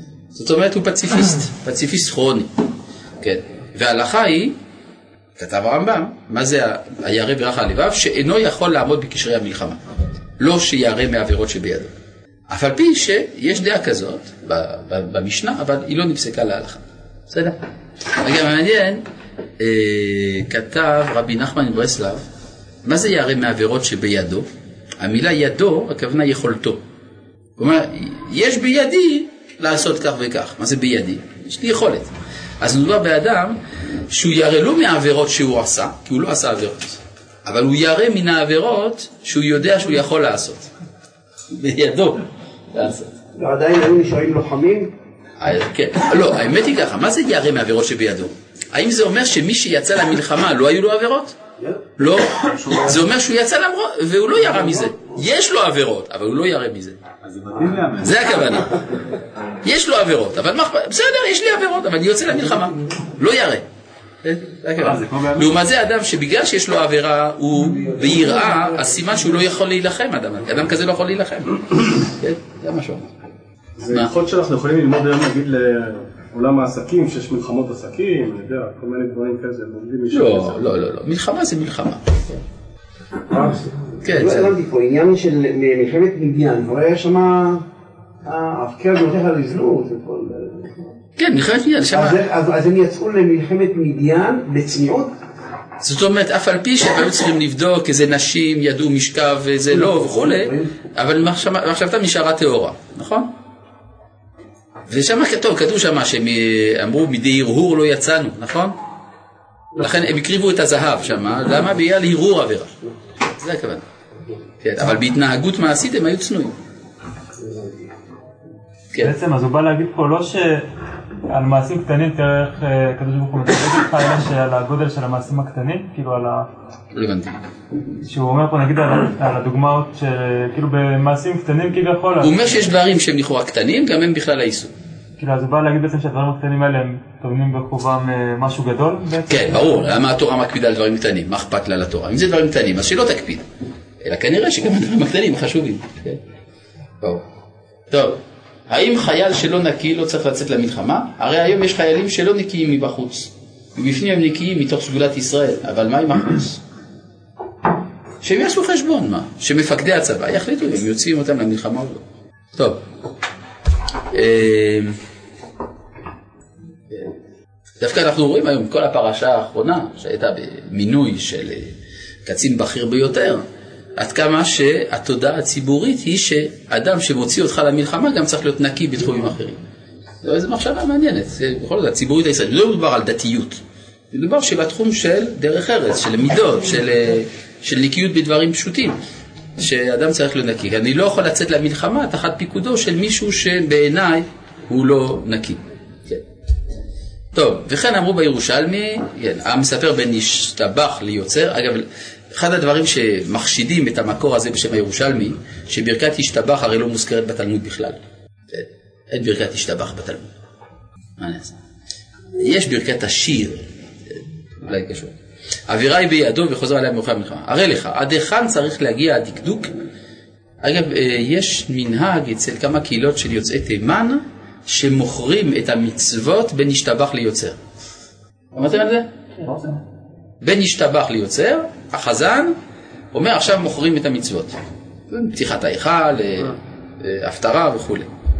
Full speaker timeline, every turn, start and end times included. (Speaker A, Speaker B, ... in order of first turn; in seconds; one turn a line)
Speaker A: 0.3-2.5
Speaker A: 3.2-4.5
Speaker A: 5.4-9.8
Speaker A: 10.4-11.9
Speaker A: 12.5-17.6
Speaker A: 18.2-19.0
Speaker A: 19.6-22.2
Speaker A: 22.8-24.5
Speaker A: 25.0-26.8
Speaker A: 27.6-32.1
Speaker A: 32.6-40.7
Speaker A: 41.5-43.1
Speaker B: 43.4-44.9
Speaker A: 45.4-51.3
Speaker A: 52.0-57.0
Speaker B: 54.6-55.1
Speaker C: 57.2-58.5
Speaker A: 58.0-58.8
Speaker A: 59.6-63.6
Speaker A: 64.2-73.1
Speaker C: 64.8-65.5
Speaker B: 67.8-69.2
Speaker C: 73.8-80.7
Speaker A: 80.1-82.4
Speaker B: 83.3-87.6
Speaker A: 84.0-84.5
Speaker B: 88.2-90.9
Speaker A: 91.2-92.2
Speaker B: 91.9-95.1
Speaker A: 95.8-103.3
Speaker B: 99.7-100.7
Speaker A: 104.9-108.8
Speaker A: 109.8-112.8
Speaker A: 113.4-113.8
Speaker A: 114.6-116.5
Speaker B: 117.4-117.8
Speaker D: 119.0-120.7
Speaker D: 121.3-126.5
Speaker A: 126.9-127.4
Speaker D: 128.0-132.5
Speaker A: 132.2-134.7
Speaker D: 135.2-140.0
Speaker A: 139.3-143.4
Speaker A: 144.0-146.2
Speaker A: 147.9-156.6
Speaker A: 158.2-162.0
Speaker A: 162.5-162.8
Speaker A: 164.1-164.9
Speaker A: 167.8-171.7
Speaker A: 172.2-173.4
Speaker A: 174.0-179.6
Speaker A: 180.2-183.6
Speaker A: 184.1-189.0
Speaker A: 189.6-196.2
Speaker A: 197.3-210.3
Speaker A: 211.2-211.6
Speaker A: 212.3-213.7
Speaker A: 214.6-215.1
Speaker A: 215.7-219.7
Speaker A: 220.6-227.6
Speaker A: 228.5-229.1
Speaker A: 230.4-232.5
Speaker A: 233.1-234.5
Speaker A: 235.1-238.1